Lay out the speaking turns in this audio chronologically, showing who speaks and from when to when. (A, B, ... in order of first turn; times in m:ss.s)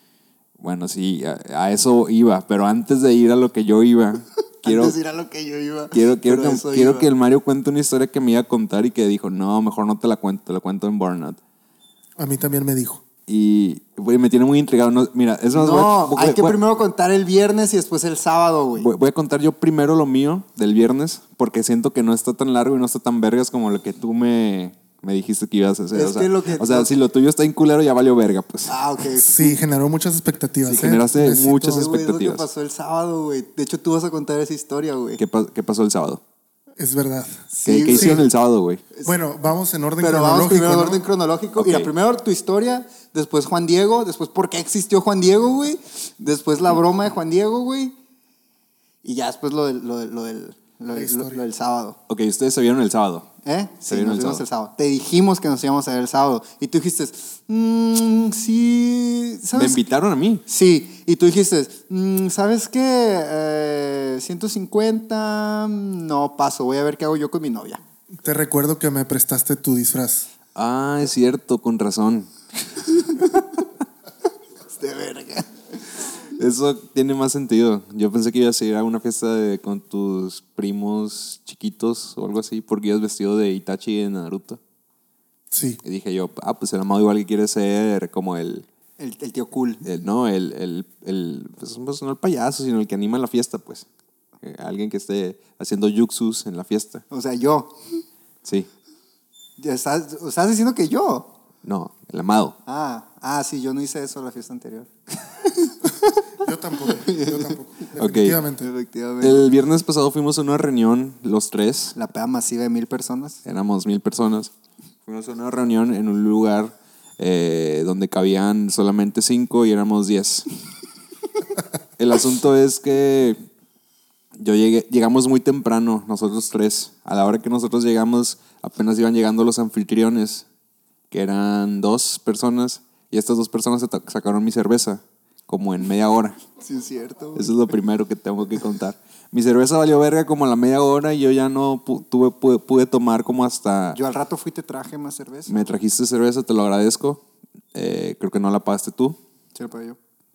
0:00.6-0:05.0 A
0:04.6-0:07.1 B
0:05.9-0:11.4 A
0:12.2-0:13.0 C
0:13.3-0:16.6 A
0:15.5-0:18.9 B
0:18.8-0:28.8 A
0:25.9-0:27.0 B
0:28.7-0:29.6 B
0:29.1-0:31.8 C
0:30.6-0:32.4 A
0:31.5-0:35.2 B
0:35.2-0:36.2 A
0:36.8-0:38.2 C
0:37.5-0:38.2 B
0:37.6-0:38.8 A
0:39.0-0:41.0 C
0:40.0-0:47.9 B
0:41.6-0:41.9 A
0:49.0-0:52.0 B
0:50.9-0:51.4 C
0:52.1-0:53.3 A
0:53.4-0:59.8 B
0:53.9-0:54.4 A
0:59.5-1:00.4 A
1:00.5-1:07.8 B
1:08.2-1:10.3 C
1:10.6-1:12.3 A
1:13.0-1:13.6 B
1:14.7-1:15.6 B
1:16.4-1:24.6 A
1:25.5-1:25.8 C
1:25.8-1:28.7 A
1:29.0-1:29.8 B
1:29.8-1:33.9 A
1:34.4-1:37.0 A
1:37.1-1:38.0 B
1:38.4-1:38.7 A
1:39.6-1:41.3 B
1:41.6-1:42.6 A
1:42.7-1:46.2 B
1:46.4-1:48.7 C
1:46.8-1:47.5 B
1:48.0-1:48.4 A
1:48.6-1:49.5 B
1:49.2-1:52.0 A
1:52.0-1:53.4 B
1:53.4-1:54.5 A
1:55.1-2:00.5 A
2:02.0-2:03.5 A
2:04.4-2:10.5 A
2:11.1-2:16.4 A
2:16.6-2:17.5 B
2:17.4-2:24.0 A
2:23.9-2:25.5 B
2:25.5-2:27.2 A
2:27.7-2:29.2 A
2:29.6-2:30.0 B